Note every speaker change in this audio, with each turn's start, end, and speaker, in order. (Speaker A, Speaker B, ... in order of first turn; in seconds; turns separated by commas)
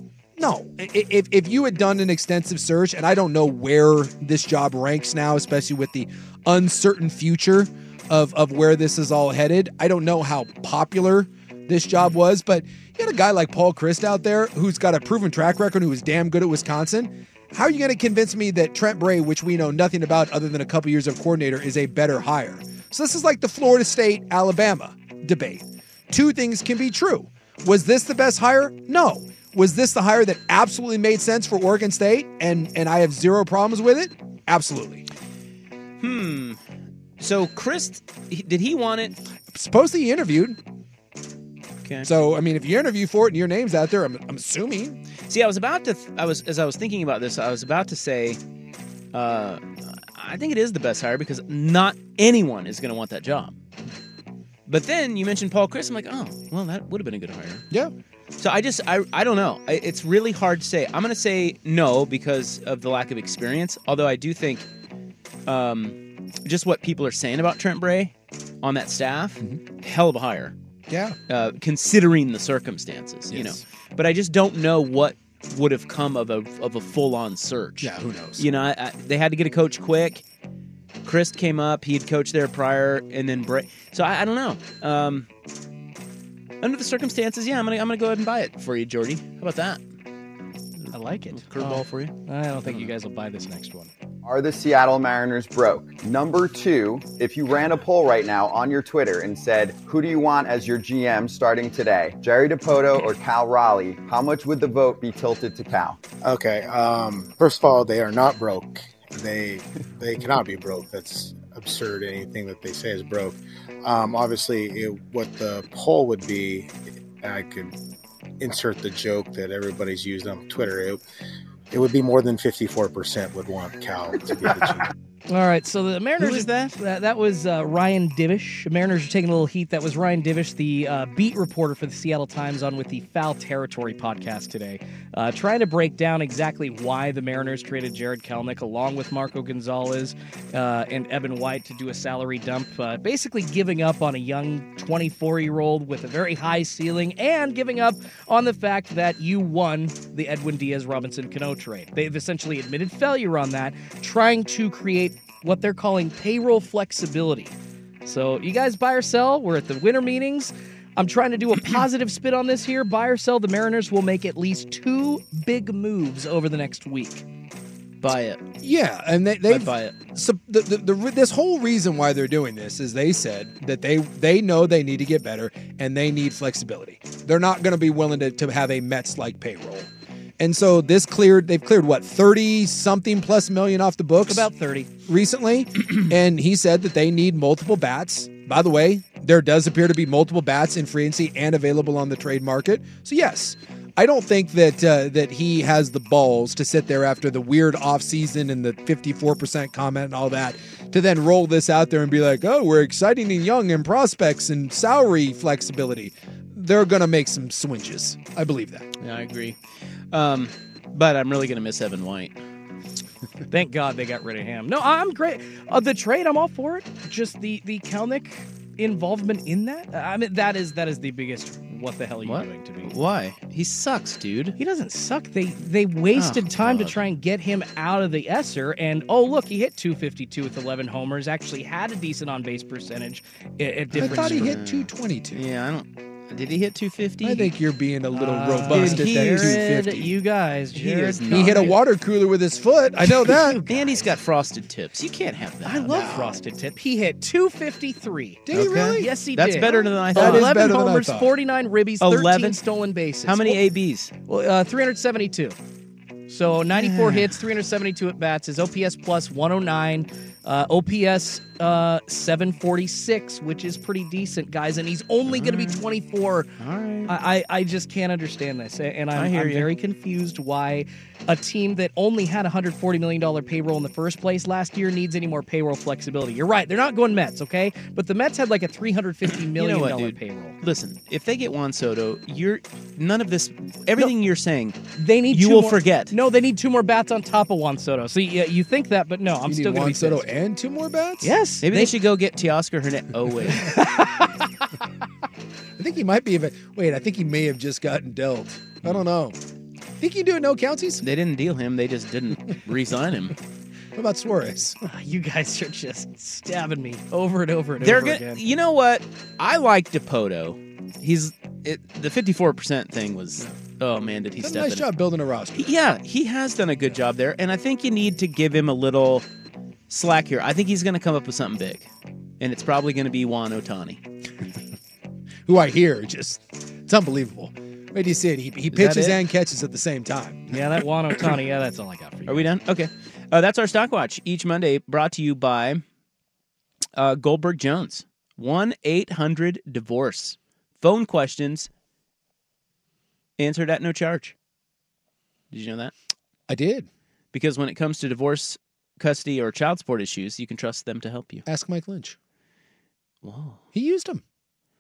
Speaker A: 0.4-35.0, Speaker B: 36.0-36.6, Speaker B: 37.2-39.1, Speaker A: 39.5-40.6, Speaker B: 41.8-42.1, Speaker A: 42.0-45.0, Speaker B: 45.3-48.4, Speaker B: 49.1-53.6, Speaker B: 54.7-57.6, Speaker B: 58.4-64.7, Speaker B: 65.5-70.5, Speaker A: 70.9-71.2, Speaker B: 71.3-80.2, Speaker A: 73.3-73.6, Speaker A: 77.8-78.5, Speaker B: 81.0-85.3, Speaker B: 86.6-89.8, Speaker B: 90.8-92.9, Speaker C: 90.9-93.9, Speaker D: 94.2-106.0, Speaker E: 106.2-117.7, Speaker E: 118.4-121.0, Speaker E: 121.7-124.9, Speaker C: 125.3-157.5, Speaker B: 126.2-126.8, Speaker C: 158.1-167.2, Speaker B: 168.0-168.4, Speaker A: 168.6-184.5, Speaker B: 169.5-169.9, Speaker C: 184.2-184.9, Speaker A: 185.1-208.8, Speaker B: 209.0-209.6, Speaker B: 210.1-212.4, Speaker C: 213.5-222.9, Speaker B: 222.2-224.6, Speaker C: 224.6-234.6, Speaker B: 226.1-227.0, Speaker B: 233.9-237.5, Speaker A: 234.0-235.4, Speaker A: 237.2-240.1, Speaker C: 238.1-241.8, Speaker B: 238.7-239.6, Speaker B: 240.7-241.8, Speaker A: 241.3-243.6, Speaker C: 243.0-244.1, Speaker B: 243.7-246.1, Speaker C: 245.6-253.6, Speaker A: 245.9-246.4, Speaker A: 248.4-249.1, Speaker B: 248.5-250.5, Speaker A: 250.1-251.3, Speaker B: 252.0-252.6, Speaker B: 253.2-254.1, Speaker C: 254.2-255.6, Speaker C: 256.3-266.5, Speaker B: 256.7-257.4, Speaker B: 265.2-265.8, Speaker B: 266.6-267.1, Speaker C: 267.1-280.6, Speaker B: 269.1-269.7, Speaker B: 279.4-286.1, Speaker C: 284.9-290.3, Speaker A: 289.4-291.3, Speaker C: 291.2-291.9, Speaker B: 291.6-293.7, Speaker C: 293.6-294.3, Speaker A: 295.8-299.4, Speaker A: 300.0-301.0, Speaker B: 301.0-303.4, Speaker A: 303.9-304.8, Speaker C: 304.8-308.4, Speaker B: 307.8-314.9, Speaker A: 314.4-315.7, Speaker B: 315.5-319.2, Speaker B: 319.9-324.0, Speaker A: 325.4-330.6, Speaker B: 328.7-329.2, Speaker C: 330.5-332.5, Speaker B: 332.3-335.8, Speaker B: 336.9-341.7, Speaker B: 343.4-344.3, Speaker B: 345.5-345.9, Speaker A: 346.5-346.9, Speaker B: 347.3-351.4, Speaker A: 351.5-352.1, Speaker B: 353.2-353.6, Speaker A: 353.7-354.2